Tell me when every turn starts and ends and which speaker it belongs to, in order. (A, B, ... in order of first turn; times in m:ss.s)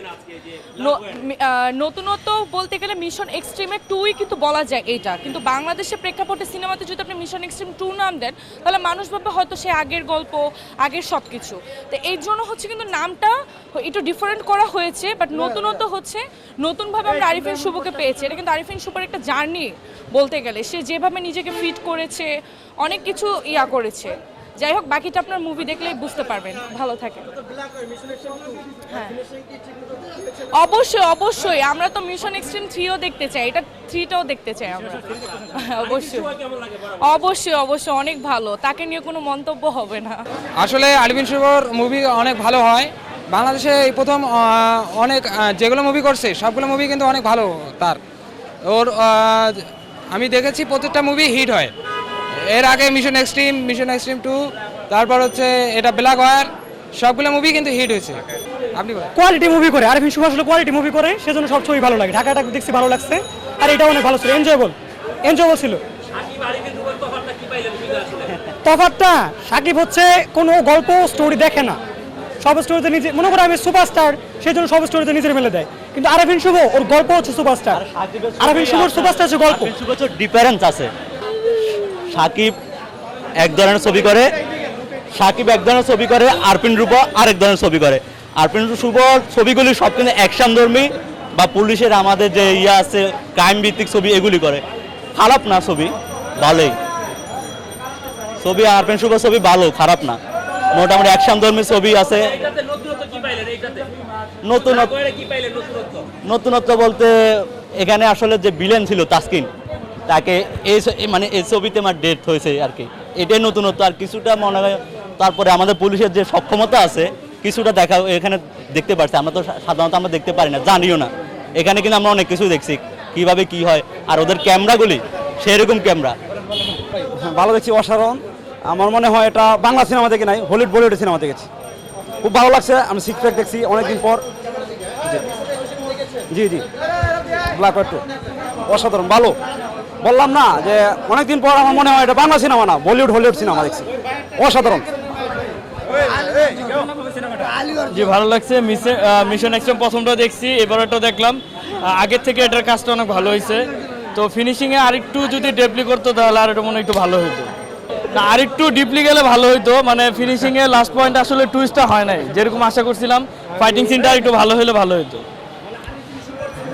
0:00.8-0:27.3 A
0:28.9-0:29.2 A
0:30.5-0:40.2 A
0:40.6-0:48.0 B
0:48.6-0:51.7 B
0:52.4-0:58.2 B
0:58.7-0:59.1 B
0:59.2-1:04.7 C
1:05.3-1:05.8 C
1:08.6-1:11.8 C
1:12.4-1:17.8 C
1:17.8-1:20.9 D
1:18.4-1:19.7 C
1:22.1-1:22.6 D
1:23.4-1:24.3 D
1:25.1-1:34.6 D
1:35.1-1:36.8 D
1:38.4-1:40.2 D
1:40.7-1:43.7 D
1:44.4-1:45.4 D
1:46.2-1:49.5 D
1:50.1-2:06.2 D
2:07.2-2:11.5 E
2:12.2-2:14.2 E
2:16.3-2:16.6 E
2:17.5-2:18.0 E
2:18.7-2:19.4 E
2:20.0-2:24.8 E
2:27.9-2:37.5 F
2:38.1-2:45.2 F